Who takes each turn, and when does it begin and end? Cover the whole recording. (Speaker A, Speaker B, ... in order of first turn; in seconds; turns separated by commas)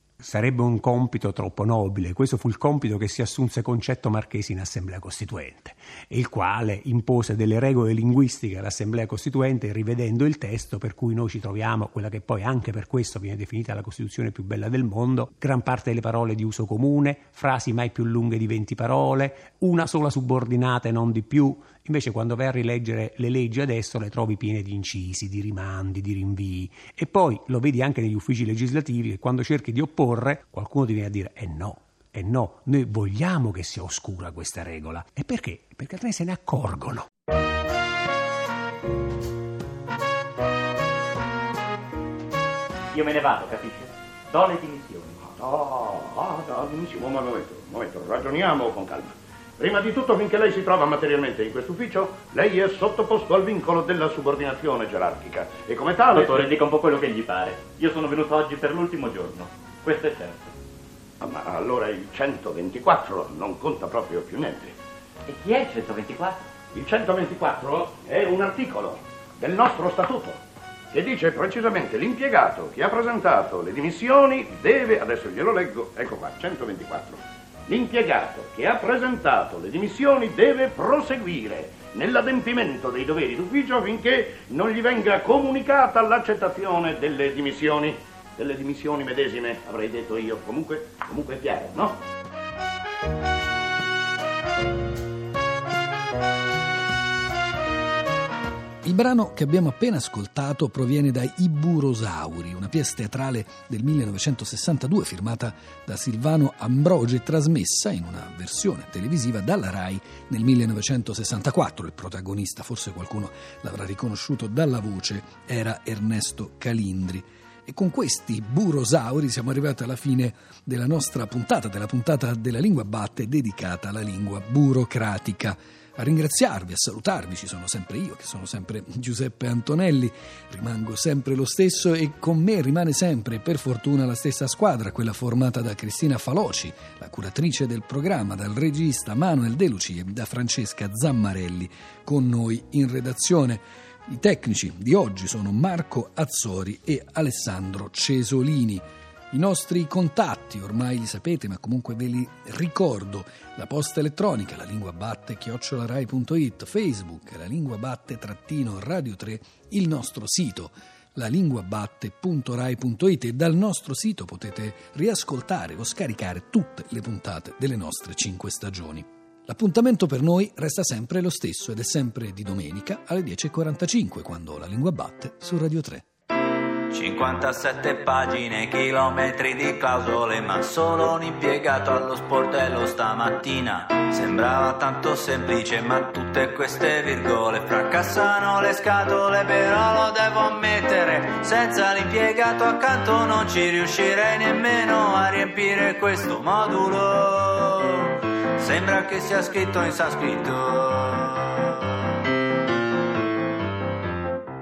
Speaker A: 0.2-37.1, Speaker B: 42.9-45.2, Speaker C: 45.2-56.5, Speaker B: 56.1-60.5, Speaker C: 61.2-64.8, Speaker B: 65.2-66.5, Speaker C: 66.7-70.4, Speaker C: 70.9-92.0, Speaker D: 98.8-176.1, Speaker E: 176.9-202.2